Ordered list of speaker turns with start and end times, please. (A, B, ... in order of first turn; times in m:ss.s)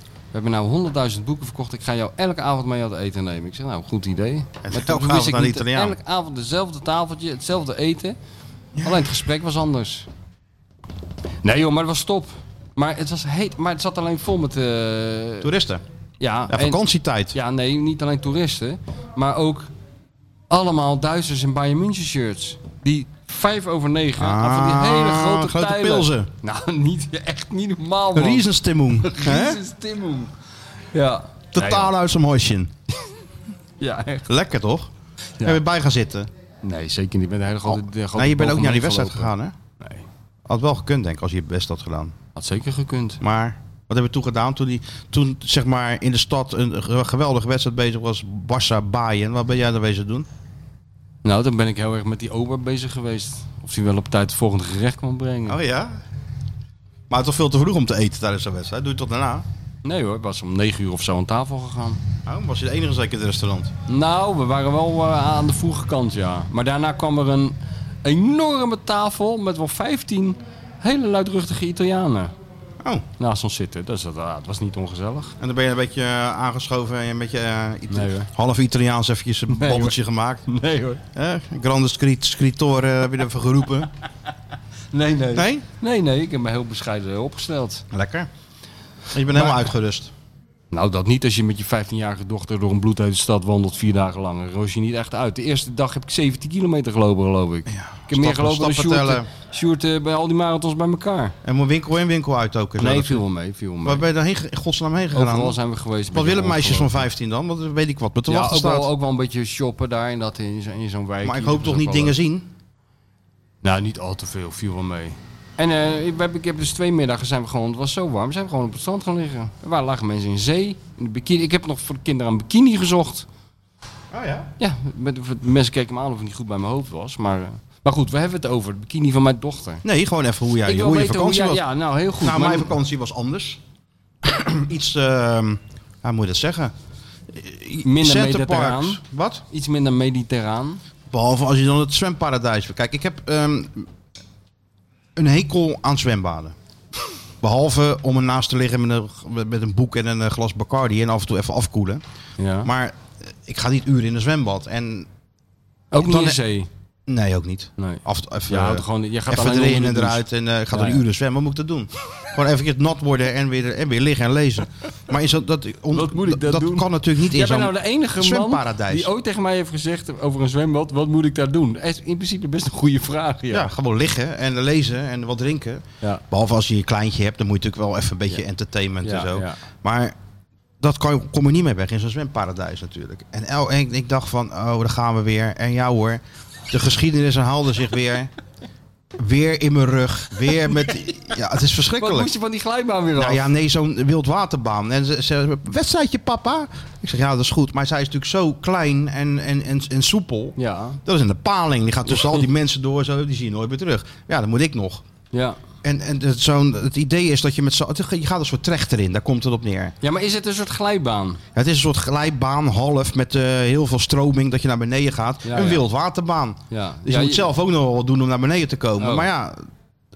0:00.3-0:08.2 A
0:04.6-0:06.0 B
0:08.8-0:10.1 A
0:11.4-0:15.5 A
0:15.4-0:15.8 B
0:16.2-0:16.8 A
0:16.5-0:17.3 B
0:17.3-0:19.7 A
0:20.5-0:28.5 A
0:24.2-0:26.3 B
0:28.1-0:29.6 B
0:29.0-0:30.3 A
0:30.9-0:31.9 A
0:31.5-0:32.7 B
0:33.8-0:34.2 A
0:34.3-0:34.9 B
0:35.4-0:36.3 B
0:36.6-0:40.0 A
0:37.6-0:39.5 B
0:40.5-0:42.1 B
0:42.3-0:43.2 A
0:43.2-0:50.3 B
0:51.2-0:55.6 A
0:55.5-0:55.9 B
0:57.1-0:59.4 B
0:59.8-1:02.0 A
1:02.2-1:03.7 B
1:03.9-1:12.3 A
1:13.2-1:15.3 A
1:15.4-1:20.4 B
1:17.9-1:18.3 A
1:19.5-1:20.0 A
1:20.5-1:21.0 A
1:21.1-1:23.9 B
1:24.9-1:27.8 A
1:25.3-1:25.6 B
1:27.9-1:28.3 B
1:29.1-1:30.1 B
1:30.7-1:41.3 A
1:37.7-1:39.3 B
1:41.4-1:43.2 B
1:42.8-1:44.0 A
1:43.8-1:45.6 B
1:45.1-1:47.0 A
1:46.1-1:48.9 B
1:48.3-1:52.2 A
1:51.2-1:52.5 B
1:53.6-2:03.2 A
2:04.1-2:04.5 B
2:04.6-2:09.8 A
2:09.8-2:11.6 B
2:10.6-2:12.7 A
2:12.2-2:13.6 B
2:14.2-2:16.7 B
2:17.3-2:19.4 B
2:17.8-2:20.8 A
2:21.1-2:23.9 B
2:25.2-2:26.5 B
2:27.4-2:32.0 B
2:32.4-2:32.7 A
2:32.6-2:35.1 B
2:35.9-2:36.7 A
2:36.0-2:36.4 B
2:37.1-2:49.1 B
2:37.8-2:41.0 A
2:45.9-2:53.7 A
2:53.5-3:00.2 B
2:59.0-2:59.6 A
3:00.8-3:08.3 B
3:09.2-3:12.3 B
3:12.0-3:13.5 A
3:13.2-3:25.0 B
3:20.6-3:21.0 A
3:22.1-3:22.4 A
3:25.3-3:25.6 A
3:25.8-3:29.9 B
3:30.0-3:31.4 A
3:31.5-3:39.7 B
3:35.4-3:35.8 A
3:36.7-3:37.5 A
3:39.0-3:39.3 A